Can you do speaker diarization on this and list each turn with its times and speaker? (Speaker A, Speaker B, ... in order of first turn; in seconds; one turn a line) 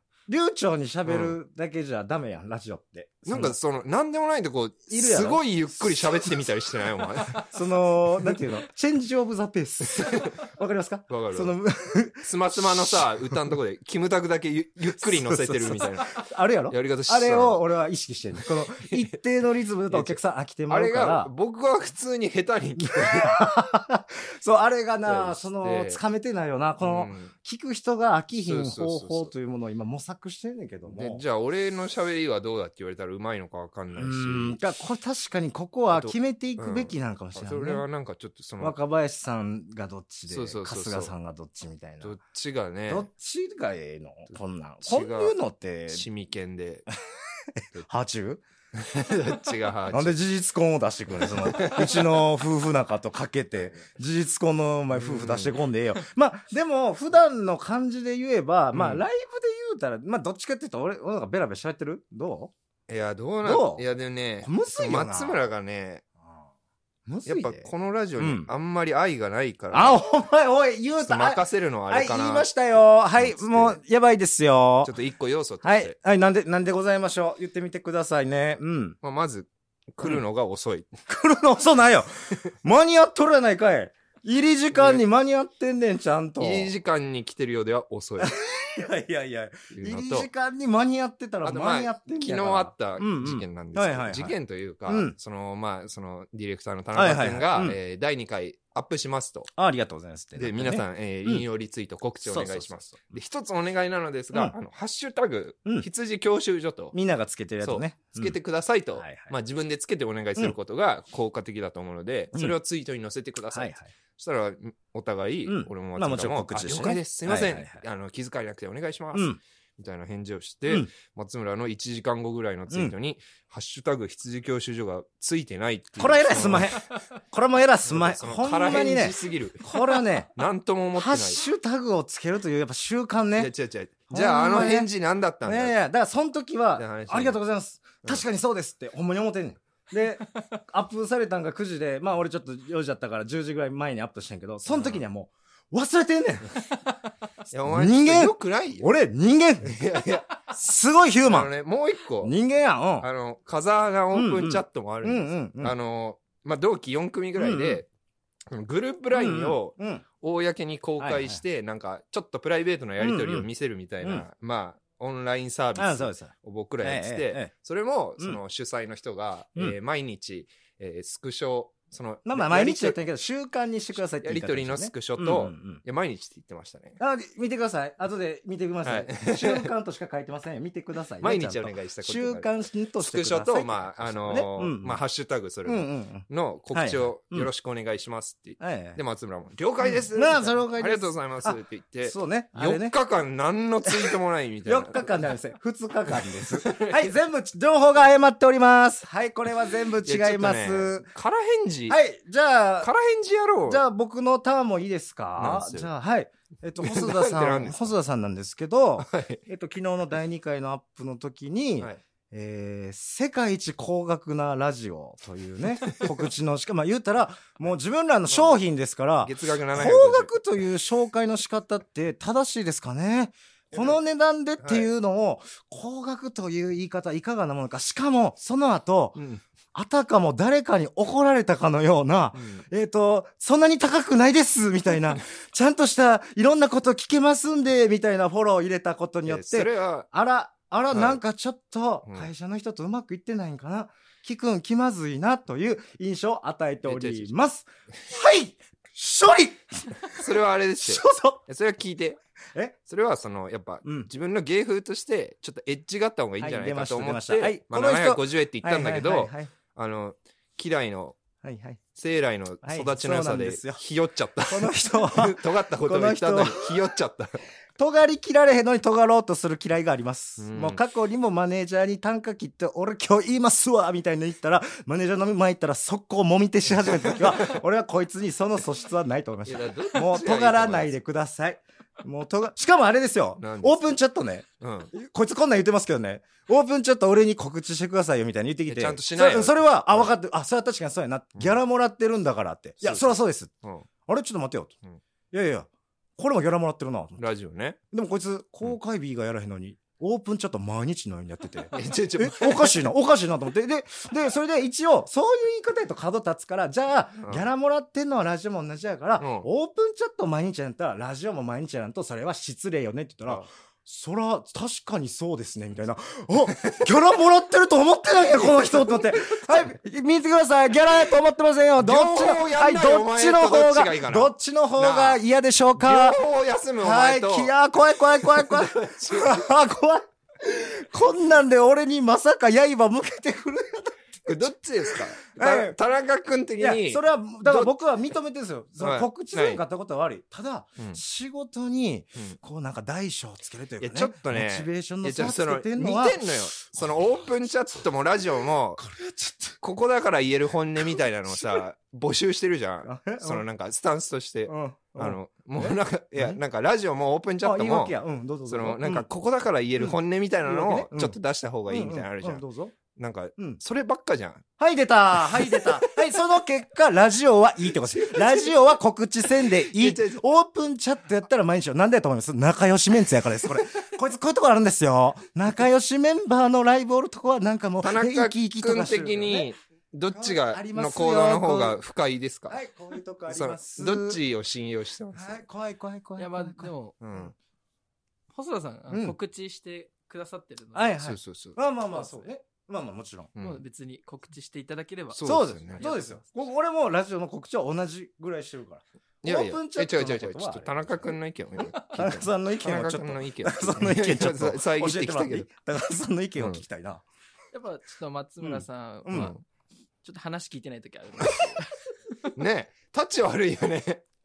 Speaker A: 0.3-3.6
Speaker B: 1.1-1.4
Speaker B: 3.3-7.5
Speaker A: 4.9-6.3
Speaker A: 7.3-13.4
Speaker B: 9.9-10.4
Speaker B: 11.1-11.5
Speaker B: 12.2-17.6
Speaker A: 15.0-21.3
Speaker B: 18.5-19.1
Speaker B: 19.9-23.4
Speaker A: 22.8-31.2
Speaker B: 25.1-26.0
Speaker B: 26.8-27.3
Speaker B: 28.4-29.3
Speaker B: 30.9-34.6
Speaker A: 34.0-37.8
Speaker B: 35.9-38.8
Speaker A: 38.6-42.2
Speaker B: 40.3-41.1
Speaker B: 42.0-43.1
Speaker A: 42.9-46.1
Speaker B: 44.8-45.4
Speaker B: 45.9-46.9
Speaker A: 47.6-48.4
Speaker B: 48.7-50.2
Speaker A: 49.9-62.5
Speaker B: 51.1-52.3
Speaker B: 54.9-55.7
Speaker B: 58.7-59.1
Speaker B: 62.9-66.0
Speaker A: 63.4-63.9
Speaker A: 64.4-65.5
Speaker A: 67.1-68.5
Speaker B: 67.3-70.0
Speaker A: 69.7-74.9
Speaker B: 71.0-72.6
Speaker B: 73.2-73.8
Speaker B: 74.8-75.9
Speaker A: 75.6-79.0
Speaker B: 79.0-80.9
Speaker A: 81.1-86.7
Speaker B: 84.7-85.0
Speaker B: 86.4-88.3
Speaker A: 88.2-94.3
Speaker B: 89.7-90.3
Speaker B: 91.4-99.5
Speaker A: 94.9-95.2
Speaker A: 96.9-97.8
Speaker A: 99.6-101.5
Speaker B: 100.4-107.0
Speaker A: 102.2-103.0
Speaker A: 106.9-108.4
Speaker B: 107.6-126.9
Speaker A: 109.0-109.3
Speaker A: 113.5-113.9
Speaker A: 115.5-117.8
Speaker A: 119.1-119.4
Speaker A: 126.0-130.3
Speaker B: 127.8-131.4
Speaker A: 130.9-133.5
Speaker B: 133.4-135.8
Speaker A: 134.1-134.9
Speaker A: 135.4-146.6
Speaker B: 136.8-137.4
Speaker B: 144.7-145.0
Speaker B: 147.5-148.9
Speaker A: 147.6-149.8
Speaker B: 149.6-150.4
Speaker A: 150.5-151.5
Speaker B: 151.2-152.3
Speaker A: 152.2-153.1
Speaker B: 153.0-157.9
Speaker A: 154.1-155.8
Speaker A: 157.4-157.8
Speaker B: 158.5-173.0
Speaker A: 159.1-160.0
Speaker A: 161.0-161.4
Speaker A: 163.0-163.5
Speaker A: 165.8-167.5
Speaker A: 172.3-175.8
Speaker B: 174.2-177.0
Speaker A: 177.0-185.0
Speaker B: 178.8-179.7
Speaker B: 181.2-195.1
Speaker A: 185.7-187.5
Speaker A: 188.6-189.0
Speaker A: 189.8-192.9
Speaker A: 193.8-201.1
Speaker B: 196.1-197.1
Speaker B: 200.0-202.0
Speaker A: 201.9-202.9
Speaker B: 202.8-203.8
Speaker A: 203.7-229.2
Speaker B: 205.4-205.9
Speaker B: 206.8-207.9
Speaker B: 209.0-209.4
Speaker B: 215.8-216.1
Speaker B: 218.3-218.6
Speaker B: 219.2-220.3
Speaker B: 223.7-224.0
Speaker B: 224.6-224.9
Speaker B: 229.2-229.4
Speaker A: 229.7-250.2
Speaker B: 232.3-232.7
Speaker B: 239.2-240.1
Speaker B: 240.9-241.2
Speaker B: 246.8-247.4
Speaker B: 250.1-252.2
Speaker A: 250.8-251.4
Speaker B: 252.9-261.2
Speaker A: 253.8-254.1
Speaker A: 256.4-259.5
Speaker A: 261.4-261.8
Speaker B: 261.9-267.4
Speaker A: 262.6-263.8
Speaker A: 264.5-266.8
Speaker A: 267.8-293.5
Speaker B: 270.4-270.8
Speaker B: 277.1-277.5
Speaker B: 279.5-280.9
Speaker B: 283.4-284.0
Speaker B: 284.6-284.9
Speaker B: 288.7-290.1
Speaker B: 292.8-293.9
Speaker A: 294.1-294.8
Speaker A: 295.3-297.2
Speaker B: 297.2-297.8
Speaker A: 297.9-326.2
Speaker B: 301.7-302.9
Speaker B: 307.2-307.5
Speaker B: 309.2-309.5
Speaker B: 316.5-316.9
Speaker B: 318.3-319.7
Speaker B: 321.8-325.2
Speaker B: 325.8-327.5
Speaker A: 326.8-335.8
Speaker B: 328.1-329.4
Speaker B: 334.3-337.7
Speaker A: 336.6-347.0
Speaker B: 338.8-339.6
Speaker B: 343.8-348.8
Speaker A: 348.8-349.6
Speaker B: 349.6-357.9
Speaker A: 351.4-351.6
Speaker A: 352.8-353.4
Speaker A: 354.5-356.4
Speaker A: 357.4-359.1
Speaker B: 358.5-364.5
Speaker A: 359.8-362.8
Speaker A: 364.6-379.5
Speaker B: 365.1-365.9
Speaker B: 367.9-368.6
Speaker B: 369.3-370.2
Speaker B: 377.8-382.6
Speaker A: 380.1-381.8
Speaker A: 382.5-384.2
Speaker B: 383.3-385.4
Speaker A: 385.1-387.2
Speaker C: 386.2-387.0
Speaker B: 387.0-387.3
Speaker C: 388.3-391.0
Speaker A: 388.9-389.2
Speaker A: 390.8-393.3
Speaker B: 391.0-391.6
Speaker C: 391.9-392.3
Speaker B: 393.4-393.6
Speaker C: 393.4-396.2
Speaker B: 395.1-395.9
Speaker A: 395.2-401.1
Speaker B: 399.2-405.5
Speaker A: 401.9-407.1
Speaker B: 406.4-406.6
Speaker C: 407.5-409.4
Speaker A: 408.4-409.4
Speaker B: 409.1-409.4
Speaker C: 410.0-411.7
Speaker B: 412.3-414.0